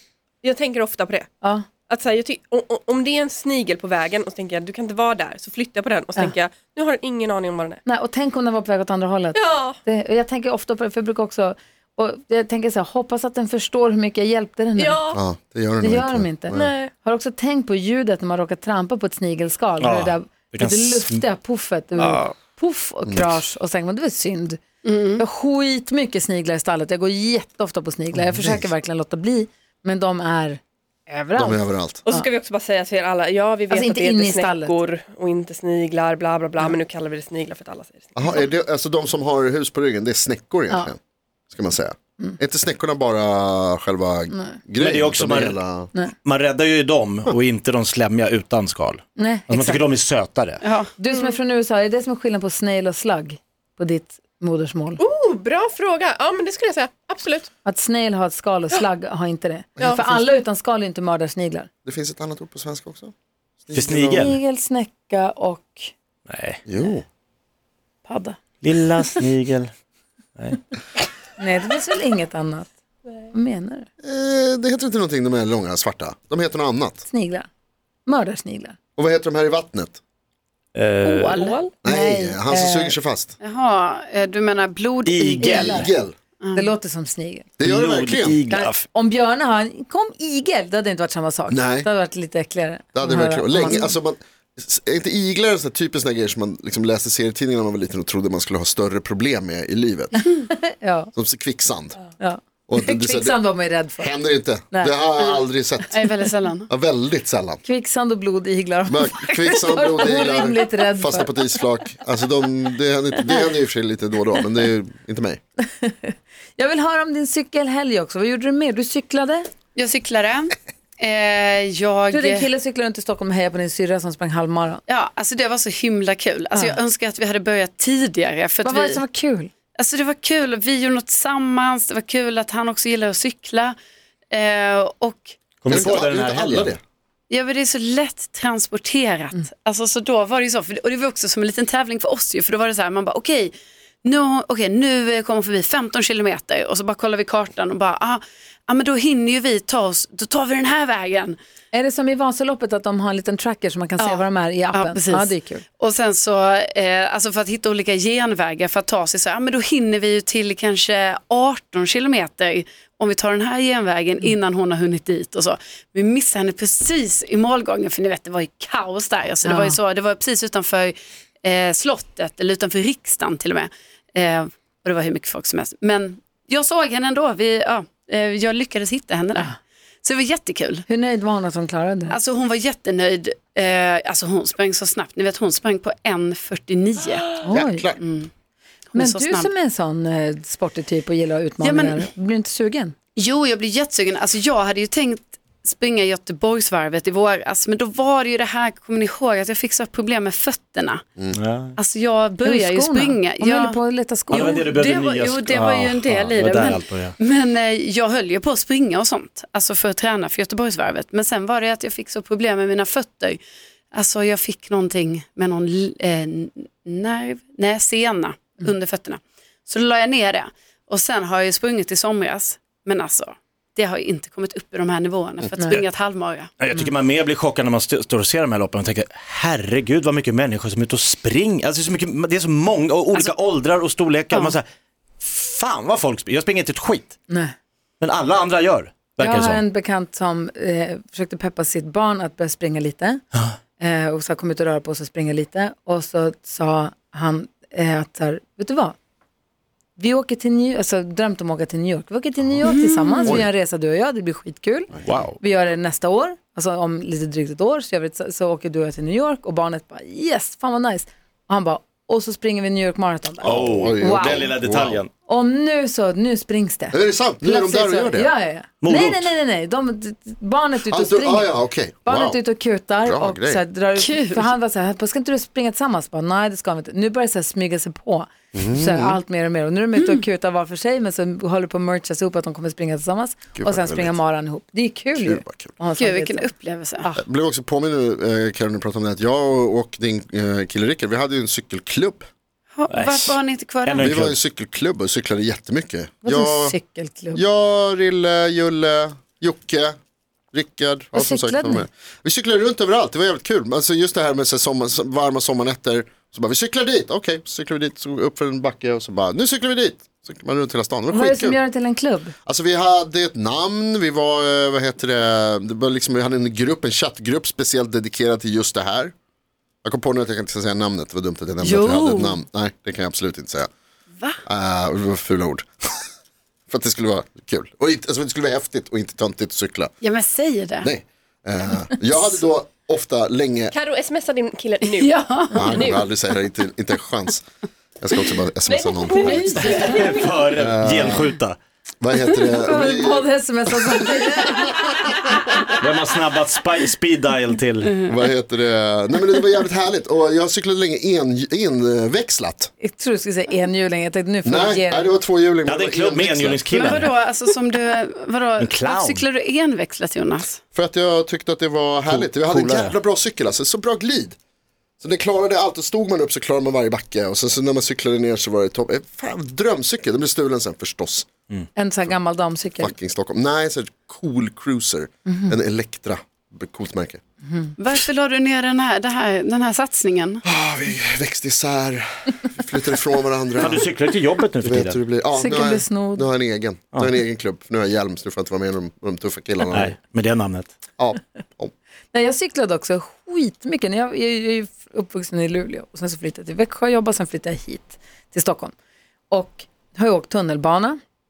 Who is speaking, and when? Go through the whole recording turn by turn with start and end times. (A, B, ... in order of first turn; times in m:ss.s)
0:00.4-0:01.3 A
0:01.4-0:01.7 B
0:01.9-0:07.8 A
0:07.8-0:15.0 B
0:09.3-0:09.8 A
0:14.8-0:15.2 A
0:15.1-0:16.7 C
0:15.8-0:24.6 B
0:16.5-0:16.9 A
0:19.8-0:21.2 D
0:22.1-0:22.3 A
0:23.1-0:23.4 C
0:24.8-0:25.2 E
0:25.2-0:32.3 B
0:28.1-0:28.6 C
0:31.3-0:32.0 C
0:32.1-0:38.2 A
0:33.7-0:34.7 B
0:38.2-0:41.0 C
0:41.5-0:45.9 C
0:44.3-0:44.6 B
0:44.8-0:45.6 D
0:46.2-0:50.6 D
0:49.2-0:49.8 B
0:50.6-0:50.9 E
0:51.0-0:55.0 B
0:55.0-0:57.5 A
0:57.6-1:01.7 B
0:59.8-1:00.3 C
0:59.8-1:00.0 A
1:01.8-1:03.1 C
1:03.6-1:04.2 C
1:03.7-1:04.4 D
1:03.9-1:05.9 B
1:06.3-1:06.6 D
1:06.6-1:07.0 C
1:08.0-1:08.4 B
1:08.6-1:09.7 D
1:10.4-1:10.6 D
1:11.4-1:12.7 B
1:13.3-1:13.9 B
1:14.0-1:17.0 C
1:17.0-1:17.5 B
1:18.0-1:18.8 B
1:19.0-1:20.0 C
1:20.7-1:21.5 D
1:21.0-1:21.7 A
1:21.8-1:23.0 B
1:21.8-1:23.3 C
1:23.4-1:25.6 E
1:25.0-1:25.9 D
1:25.4-1:25.9 B
1:25.6-1:26.1 C
1:26.4-1:26.7 E
1:26.5-1:27.5 B
1:27.6-1:28.4 C
1:27.6-1:28.8 D
1:28.5-1:34.0 B
1:31.5-1:31.9 C
1:32.9-1:40.1 C
1:40.1-1:41.1 B
1:41.1-1:42.0 C
1:42.2-1:44.1 B
1:42.7-1:43.4 C
1:44.0-1:46.0 C
1:44.7-1:45.4 B
1:45.9-1:46.7 E
1:46.7-1:47.6 C
1:47.6-1:51.3 B
1:48.9-1:55.4 C
1:55.7-1:59.4 B
1:59.7-2:02.5 E
2:02.1-2:04.8 B
2:04.9-2:09.0 E
2:08.6-2:09.5 B
2:09.8-2:13.7 E
2:14.3-2:15.4 E
2:15.6-2:16.7 D
2:15.7-2:16.8 C
2:17.3-2:31.4 E
2:31.7-2:35.6 B
2:34.0-3:00.8 E
2:49.4-2:49.8 B
3:00.9-3:02.2 B
3:02.1-3:07.4 E
3:07.4-3:07.9 B
3:07.5-3:08.0 C
3:08.0-3:08.3 E
3:08.9-3:09.5 E
3:08.9-3:12.9 B
3:11.6-3:12.1 E
3:13.2-3:21.0 E
3:21.3-3:21.8 D
3:21.8-3:23.8 E
3:22.4-3:24.6 B
3:24.3-3:33.4 E
3:24.3-3:27.1 D
3:33.9-3:46.5 E
3:46.6-3:54.6 D
3:55.2-3:57.1 D
3:58.0-3:59.6 D
3:59.2-4:03.2 B
4:03.8-4:09.0 B
4:10.0-4:24.5 B
4:12.6-4:13.4 E
4:15.0-4:15.4 D
4:23.4-4:25.0 C
4:23.4-4:25.1 D
4:25.2-4:46.5 B
4:26.9-4:28.3 C
4:28.8-4:29.3 D
4:30.8-4:32.4 C
4:33.0-4:33.6 C
4:34.0-4:34.5 E
4:38.5-4:39.2 C
4:40.0-4:40.2 E
4:43.6-4:44.2 C
4:45.2-4:45.7 C
4:46.0-4:47.1 E
4:47.2-4:52.3 C
4:52.7-4:54.1 E
4:52.9-4:54.4 D
4:54.0-4:56.8 C
4:56.2-4:57.4 B
4:57.3-5:00.0 C
5:00.5-5:11.6 C
5:01.1-5:01.8 B
5:11.1-5:12.3 B
5:12.4-5:19.1 C
5:19.8-5:23.7 C
5:21.6-5:22.4 E
5:24.4-5:25.9 C
5:26.7-5:29.9 C
5:30.0-5:30.9 E
5:30.8-5:33.7 C
5:33.7-5:35.1 A
5:34.8-5:36.2 E
5:35.5-5:37.4 C
5:38.0-5:39.6 C
5:38.6-5:40.5 A
5:39.1-5:40.2 E
5:39.6-5:41.6 D
5:40.5-5:41.3 C
5:42.0-5:43.3 C
5:42.6-5:45.5 B
5:45.8-5:48.0 D
5:48.0-5:52.7 C
5:52.8-5:55.1 B
5:54.4-5:57.0 C
5:55.6-5:57.1 D
5:56.7-6:00.6 E
5:58.6-5:59.2 D
6:00.7-6:04.4 C
6:02.1-6:03.0 D
6:05.0-6:11.3 C
6:11.7-6:12.9 B
6:12.8-6:17.2 C
6:15.2-6:15.6 B
6:17.5-6:17.7 B
6:17.8-6:20.4 E
6:20.4-6:23.9 C
6:23.6-6:25.0 D
6:24.6-6:29.9 C
6:25.3-6:26.3 B
6:29.7-6:30.7 D
6:31.0-6:31.7 C
6:32.1-6:38.7 B
6:39.3-6:41.0 B